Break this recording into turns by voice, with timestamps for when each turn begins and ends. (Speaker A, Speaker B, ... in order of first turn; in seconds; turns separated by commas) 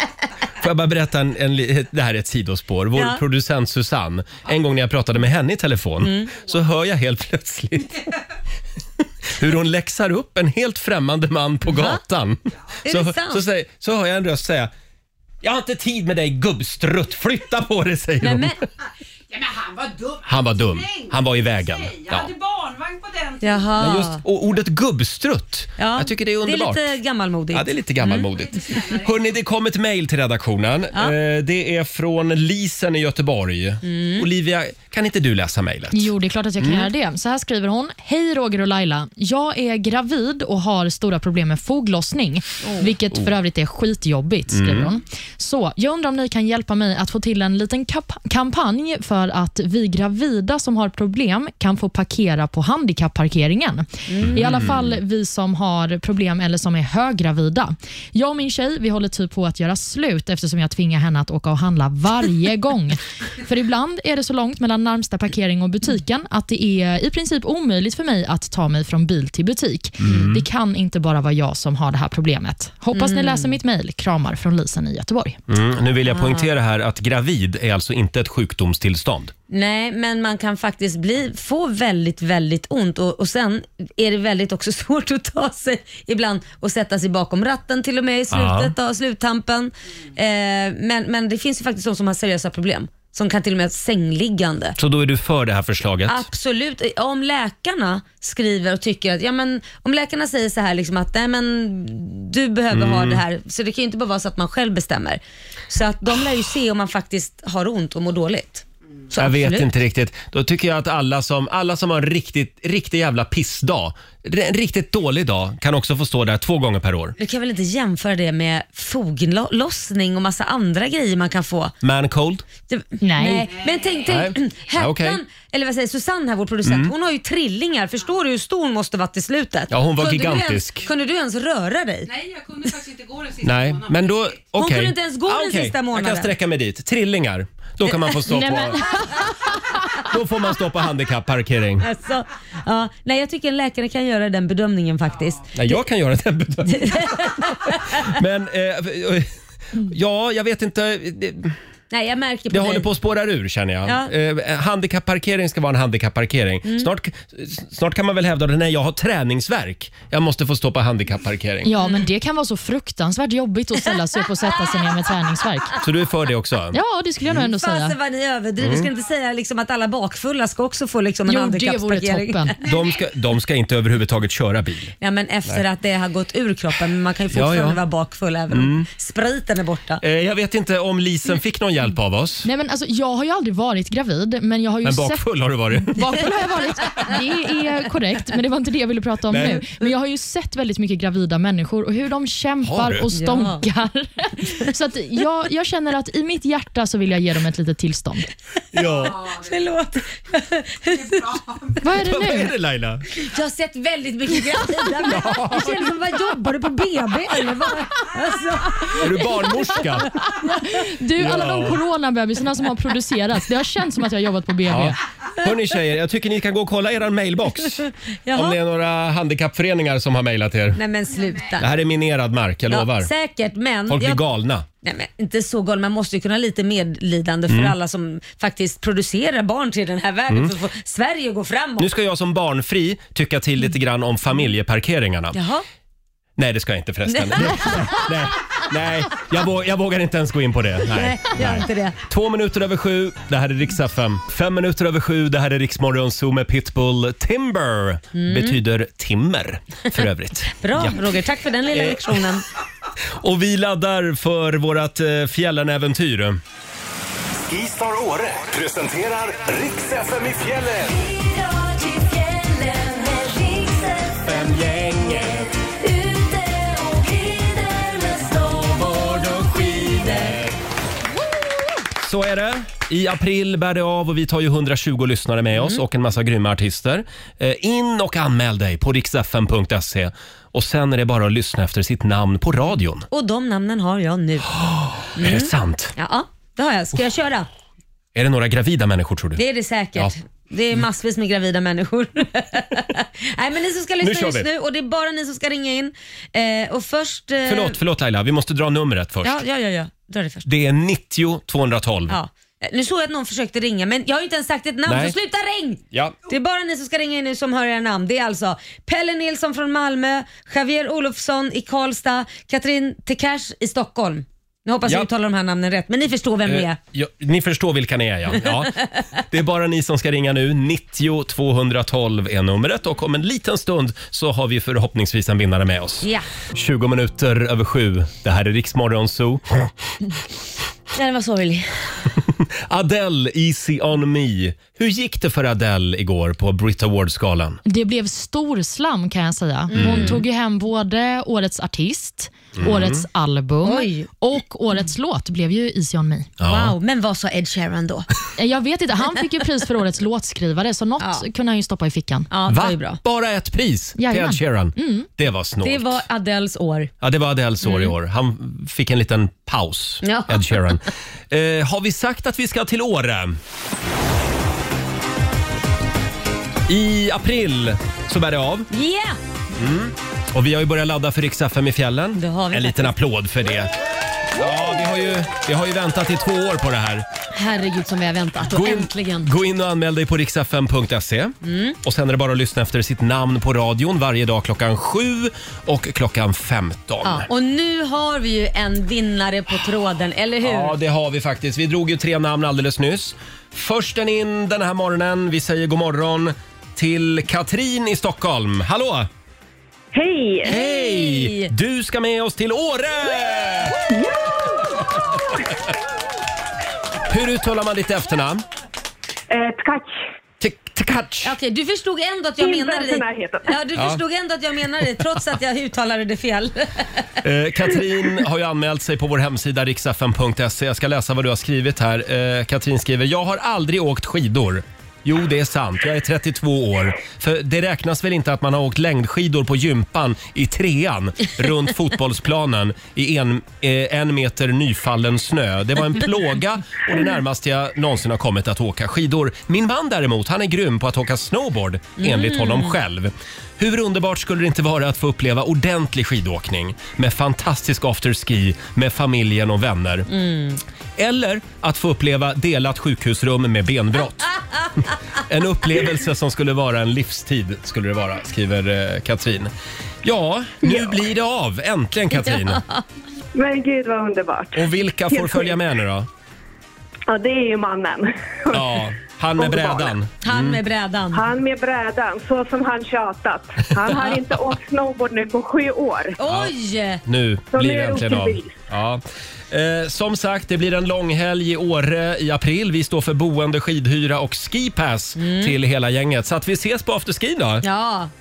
Speaker A: 0.6-8.1, Speaker B: 2.9-3.2, Speaker B: 6.0-6.3, Speaker A: 9.3-14.7, Speaker B: 11.7-12.0, Speaker B: 12.8-13.4, Speaker A: 15.4-18.6, Speaker B: 18.2-18.6, Speaker C: 19.3-23.7, Speaker A: 20.2-22.3, Speaker B: 23.4-24.2, Speaker A: 23.8-26.9, Speaker B: 25.8-28.3, Speaker A: 27.5-36.9, Speaker C: 28.4-29.1, Speaker B: 33.8-34.3, Speaker D: 35.9-75.4, Speaker B: 42.6-42.9, Speaker A: 44.5-44.9, Speaker B: 54.1-54.8, Speaker A: 54.2-54.7, Speaker A: 70.0-70.4, Speaker B: 72.9-73.6, Speaker A: 75.5-79.3, Speaker B: 76.0-76.5, Speaker B: 79.5-94.8, Speaker A: 88.3-88.7, Speaker A: 94.8-96.2, Speaker B: 96.0-109.7, Speaker A: 102.7-103.2, Speaker A: 109.2-117.2, Speaker B: 117.2-121.7, Speaker A: 121.8-122.5, Speaker B: 122.7-132.1, Speaker D: 123.0-123.5, Speaker C: 123.5-124.1, Speaker A: 124.0-125.2, Speaker A: 126.6-126.9, Speaker A: 129.7-130.9, Speaker C: 132.1-134.3, Speaker A: 133.4-138.9, Speaker B: 134.5-136.3, Speaker D: 138.3-139.3, Speaker A: 140.0-141.9, Speaker B: 141.8-145.8, Speaker A: 145.5-151.5, Speaker B: 146.7-148.1, Speaker B: 151.9-152.9, Speaker A: 152.5-161.7, Speaker B: 153.8-154.1, Speaker D: 161.6-165.8, Speaker B: 164.7-164.9, Speaker A: 165.8-166.8, Speaker D: 166.7-167.9, Speaker B: 167.3-172.6, Speaker A: 168.6-168.9, Speaker D: 171.3-172.6, Speaker A: 172.6-174.9, Speaker B: 175.0-180.0, Speaker A: 177.3-177.8, Speaker A: 178.5-178.9, Speaker A: 180.0-182.5, Speaker D: 182.4-198.3, Speaker A: 184.8-186.0, Speaker A: 189.3-189.7, Speaker A: 192.6-193.1, Speaker B: 193.1-193.7, Speaker A: 198.7-199.2, Speaker B: 199.0-201.7, Speaker D: 201.8-202.5, Speaker A: 202.0-203.1, Speaker B: 203.1-209.9, Speaker A: 205.0-205.9, Speaker A: 209.0-210.1, Speaker D: 210.3-215.0, Speaker A: 211.2-211.8, Speaker A: 214.7-220.8, Speaker B: 217.8-218.6, Speaker B: 220.7-221.7, Speaker A: 221.6-223.1, Speaker B: 222.7-224.2, Speaker A: 223.9-224.7, Speaker B: 224.8-231.9, Speaker A: 227.5-227.7, Speaker A: 230.3-230.5, Speaker A: 231.8-235.4, Speaker B: 235.3-235.6, Speaker A: 236.4-251.0, Speaker B: 237.1-238.1, Speaker B: 240.8-242.0, Speaker B: 248.1-248.6, Speaker B: 250.6-252.4, Speaker A: 251.7-252.3, Speaker A: 253.2-256.4, Speaker E: 257.5-261.0, Speaker B: 261.1-264.5, Speaker A: 264.2-265.5, Speaker B: 265.2-270.4, Speaker A: 268.7-270.5, Speaker A: 272.0-283.1, Speaker B: 275.6-275.8, Speaker B: 283.1-284.5, Speaker A: 284.5-285.9, Speaker B: 285.1-287.5, Speaker A: 288.1-289.4, Speaker B: 289.4-297.8, Speaker A: 294.0-294.5, Speaker A: 297.4-299.4, Speaker B: 299.2-300.4, Speaker A: 300.4-302.2, Speaker B: 302.1-316.8, Speaker A: 304.9-305.1, Speaker A: 305.9-306.2, Speaker A: 316.4-329.7, Speaker B: 330.9-332.1, Speaker A: 332.4-337.6, Speaker D: 337.6-346.3, Speaker B: 339.7-340.2, Speaker A: 339.7-340.2, Speaker A: 342.6-343.0, Speaker B: 343.6-344.1, Speaker A: 346.4-346.7, Speaker B: 346.4-348.1, Speaker D: 348.4-352.3, Speaker B: 351.0-351.2, Speaker B: 352.3-353.0, Speaker A: 352.5-356.0, Speaker D: 354.0-355.1, Speaker B: 355.6-356.9, Speaker A: 357.0-363.4, Speaker B: 357.6-357.9, Speaker B: 360.0-360.8, Speaker A: 366.7-368.7, Speaker B: 368.7-369.2, Speaker A: 369.6-373.7, Speaker B: 372.1-372.9, Speaker A: 374.3-377.1, Speaker B: 377.3-379.3, Speaker A: 378.4-387.3, Speaker B: 381.4-381.8, Speaker B: 387.0-390.7, Speaker A: 390.4-399.1, Speaker F: 399.9-400.6, Speaker A: 400.4-403.8, Speaker B: 400.5-401.5, Speaker F: 403.9-405.3, Speaker A: 407.1-408.4, Speaker F: 409.3-409.9, Speaker A: 410.4-411.3, Speaker B: 411.2-417.1, Speaker F: 412.4-413.6, Speaker A: 417.2-450.1, Speaker B: 442.0-442.7, Speaker B: 450.1-450.6, Speaker A: 451.0-454.3, Speaker A: 455.2-459.5, Speaker A: 460.0-462.6, Speaker B: 462.1-462.8, Speaker F: 463.3-465.6, Speaker A: 464.5-466.1, Speaker F: 467.1-468.7, Speaker A: 468.5-470.6, Speaker F: 469.4-469.9, Speaker B: 470.2-471.3, Speaker F: 471.1-476.1, Speaker B: 476.2-477.0, Speaker A: 476.2-476.5, Speaker A: 477.0-487.6, Speaker F: 477.5-478.6, Speaker B: 485.2-485.5, Speaker B: 487.6-488.1